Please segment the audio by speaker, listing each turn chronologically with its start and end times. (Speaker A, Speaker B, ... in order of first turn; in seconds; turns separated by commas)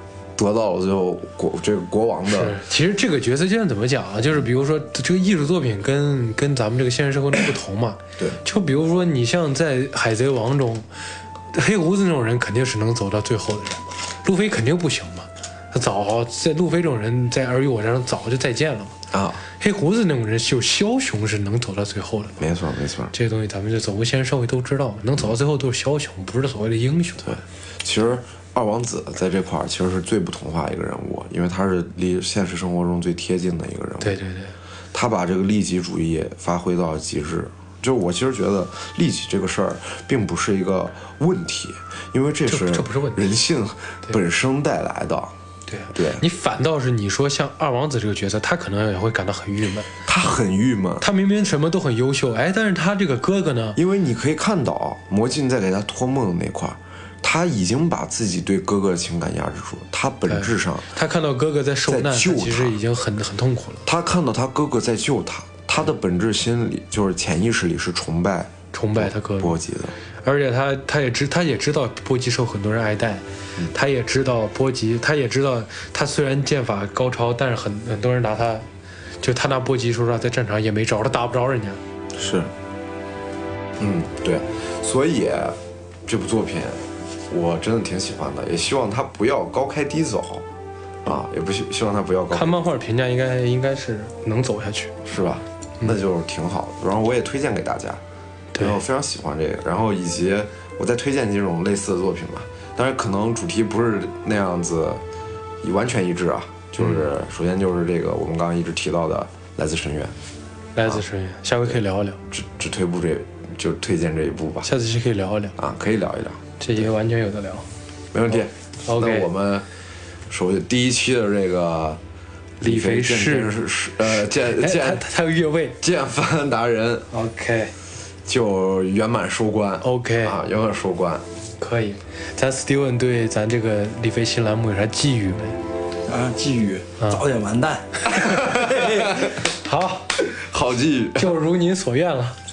Speaker A: 0.3-2.6, Speaker B: 2.3-10.9, Speaker B: 11.5-18.9, Speaker A: 19.1-19.4, Speaker B: 19.5-22.4, Speaker A: 22.4-23.1, Speaker B: 23.1-27.4, Speaker A: 27.2-34.2, Speaker B: 34.0-34.5, Speaker A: 34.9-45.3, Speaker B: 42.5-43.3, Speaker B: 45.7-49.9, Speaker A: 45.9-46.2, Speaker A: 50.0-51.0, Speaker B: 51.0-53.8, Speaker A: 53.8-60.9, Speaker B: 60.3-63.8, Speaker A: 61.9-62.8, Speaker A: 63.9-69.9, Speaker B: 68.7-69.5, Speaker B: 70.2-78.7, Speaker B: 79.2-81.8, Speaker A: 82.1-82.5, Speaker A: 83.8-90.5, Speaker A: 91.0-92.6, Speaker B: 92.3-95.0, Speaker A: 95.0-98.0, Speaker B: 98.5-98.8, Speaker A: 98.6-105.0, Speaker A: 105.6-110.1, Speaker B: 110.7-112.2, Speaker A: 112.3-114.7, Speaker B: 114.6-115.5, Speaker A: 115.6-116.4, Speaker B: 116.6-117.7, Speaker A: 118.1-119.7, Speaker B: 118.8-119.3, Speaker A: 120.3-122.0, Speaker A: 122.6-125.0, Speaker B: 122.6-125.8, Speaker A: 125.8-127.1, Speaker B: 127.1-127.7, Speaker A: 128.2-131.2, Speaker B: 129.8-130.4, Speaker B: 131.6-135.6, Speaker C: 136.0-138.6, Speaker B: 138.3-140.1, Speaker A: 138.4-139.3, Speaker A: 140.2-141.3, Speaker B: 141.2-142.4